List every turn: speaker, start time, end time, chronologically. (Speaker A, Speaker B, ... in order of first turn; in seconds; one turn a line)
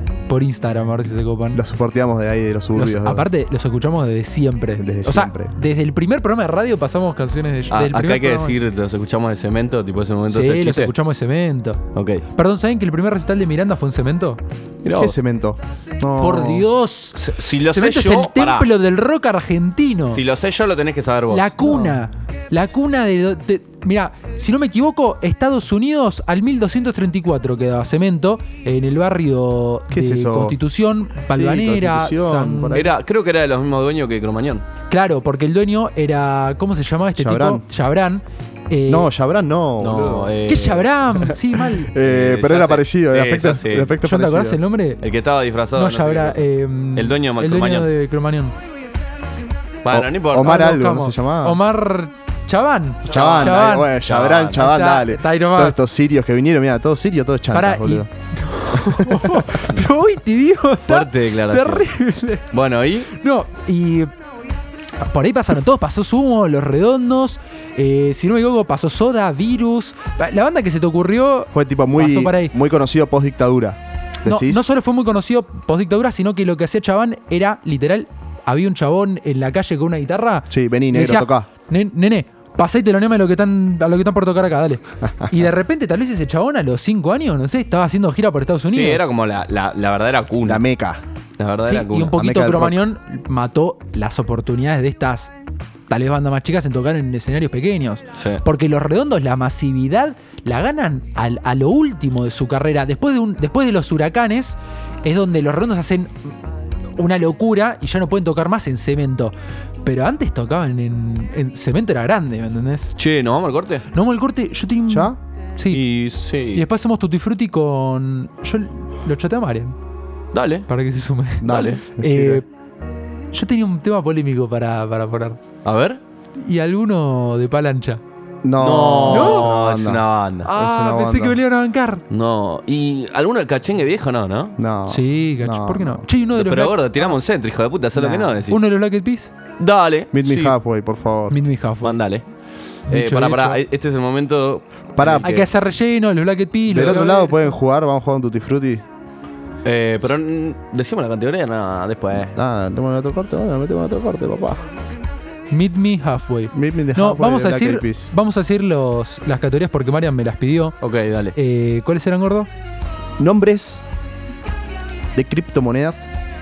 Speaker A: 0.3-1.6
Speaker B: 1.5-3.2
Speaker A: 2.7-8.6
Speaker B: 4.8-5.5
Speaker C: 7.7-10.9
Speaker A: 10.3-14.4
Speaker C: 11.9-12.2
Speaker C: 14.8-15.2
Speaker B: 14.9-16.6
Speaker A: 16.2-20.2
Speaker C: 17.1-18.7
Speaker C: 20.1-21.5
Speaker A: 21.3-32.8
Speaker B: 21.6-21.9
Speaker B: 29.9-30.6
Speaker B: 31.3-32.9
Speaker C: 32.7-34.6
Speaker A: 34.9-39.1
Speaker B: 37.1-37.6
Speaker B: 38.9-40.4
Speaker C: 39.8-40.9
Speaker A: 40.5-41.9
Speaker B: 41.3-44.6
Speaker C: 42.0-44.0
Speaker A: 44.0-45.0
Speaker C: 45.0-47.9
Speaker A: 45.7-48.5
Speaker C: 49.8-50.5
Speaker B: 49.9-51.6
Speaker A: 50.4-53.9
Speaker B: 53.0-58.1
Speaker C: 53.1-54.7
Speaker A: 54.6-55.8
Speaker A: 57.5-62.4
Speaker B: 58.7-59.6
Speaker C: 60.9-61.9
Speaker C: 62.5-63.1
Speaker A: 63.1-64.1
Speaker A: 65.0-72.5
Speaker B: 71.5-74.6
Speaker A: 74.2-89.0
Speaker B: 80.5-81.5
Speaker C: 88.7-90.6
Speaker B: 90.4-91.0
Speaker C: 91.4-92.2
Speaker A: 91.7-95.3
Speaker B: 92.1-92.8
Speaker A: 95.9-106.3
Speaker A: 107.0-112.9
Speaker C: 113.0-113.8
Speaker A: 113.9-115.8
Speaker B: 114.9-115.2
Speaker C: 115.7-116.6
Speaker A: 116.5-119.8
Speaker C: 120.3-120.7
Speaker A: 120.7-122.5
Speaker B: 121.4-122.4
Speaker C: 121.5-121.8
Speaker A: 123.3-125.4
Speaker C: 125.6-126.0
Speaker A: 126.4-128.0
Speaker B: 128.4-131.4
Speaker C: 128.6-130.5
Speaker A: 129.1-129.5
Speaker A: 130.4-132.0
Speaker C: 132.1-134.6
Speaker B: 134.6-136.0
Speaker A: 134.9-137.2
Speaker C: 136.3-138.6
Speaker A: 138.0-139.3
Speaker C: 139.6-140.5
Speaker B: 140.1-141.4
Speaker A: 141.3-142.0
Speaker C: 141.8-142.2
Speaker A: 142.9-143.6
Speaker C: 142.9-145.5
Speaker B: 145.0-145.3
Speaker A: 145.2-147.4
Speaker B: 146.7-148.8
Speaker C: 149.6-152.4
Speaker B: 152.3-154.6
Speaker A: 155.5-160.8
Speaker B: 156.5-158.1
Speaker C: 160.8-161.3
Speaker A: 161.3-162.5
Speaker B: 163.2-163.8
Speaker B: 165.1-166.1